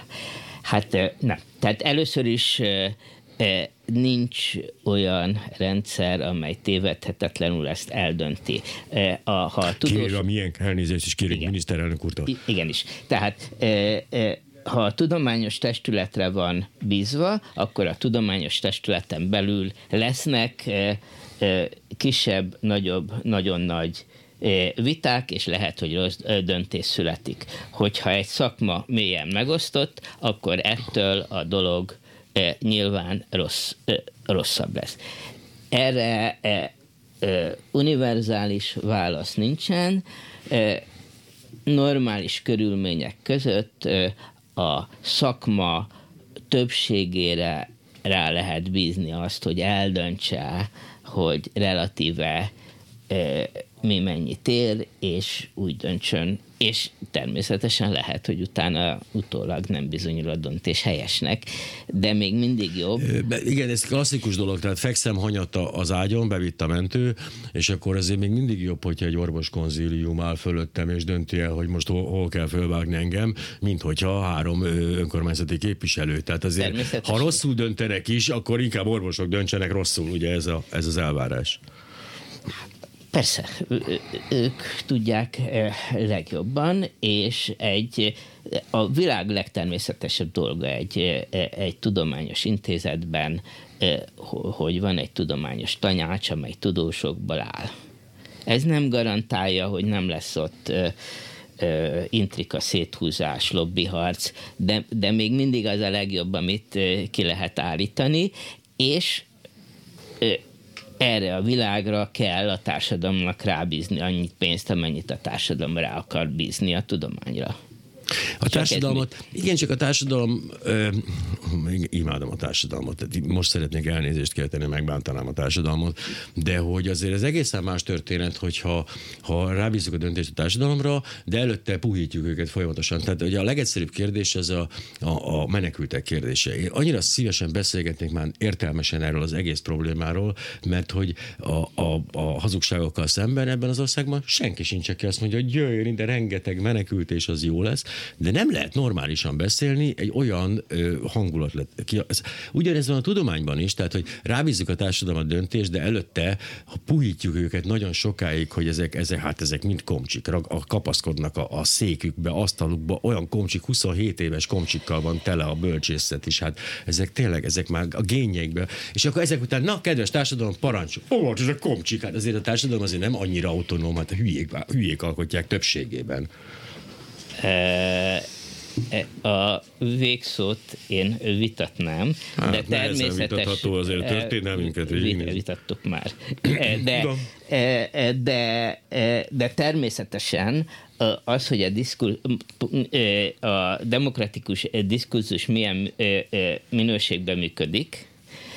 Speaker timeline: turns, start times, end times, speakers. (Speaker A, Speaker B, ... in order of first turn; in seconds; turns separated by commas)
Speaker A: 0.6-10.2, Speaker B: 9.7-12.4, Speaker A: 12.3-35.0, Speaker A: 35.7-40.9, Speaker A: 41.7-45.9, Speaker A: 46.5-52.5, Speaker A: 53.1-63.1, Speaker B: 63.0-81.6, Speaker A: 76.6-77.4, Speaker A: 83.1-97.7, Speaker A: 98.5-100.9, Speaker A: 101.6-109.3, Speaker A: 111.0-117.6, Speaker B: 118.4-176.3, Speaker A: 118.5-119.1, Speaker A: 177.4-178.3, Speaker A: 178.9-198.1, Speaker B: 182.4-185.4, Speaker B: 186.5-187.2